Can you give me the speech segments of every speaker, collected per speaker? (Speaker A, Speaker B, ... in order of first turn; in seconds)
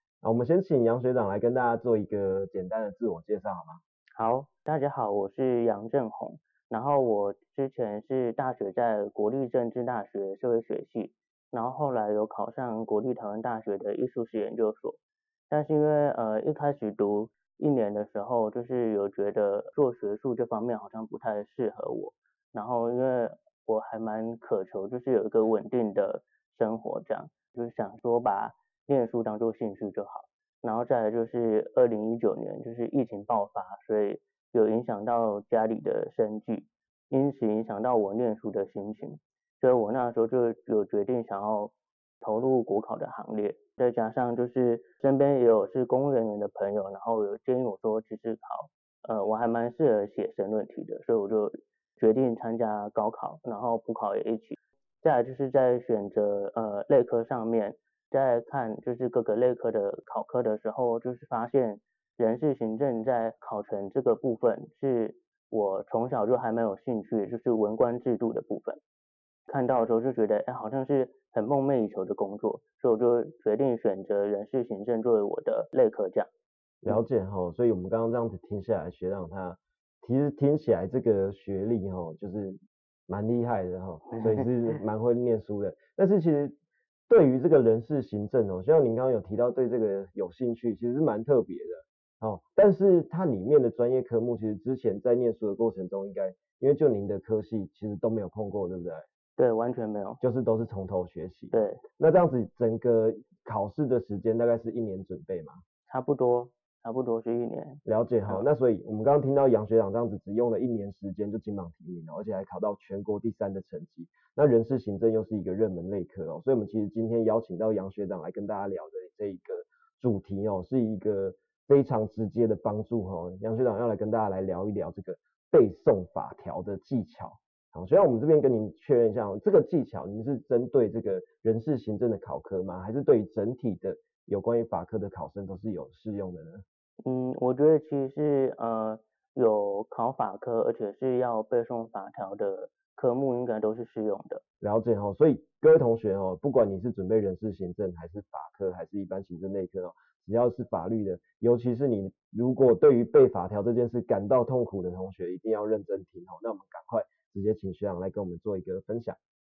Speaker A: 0.2-3.8, 76.8-86.5, 87.1-99.1, 100.2-105.6, 107.9-136.6, 144.6-159.2
Speaker B: 4.2-15.0, 15.5-68.8, 69.5-76.3, 84.2-84.5, 99.4-100.2, 101.5-101.8, 105.9-108.5, 137.1-144.4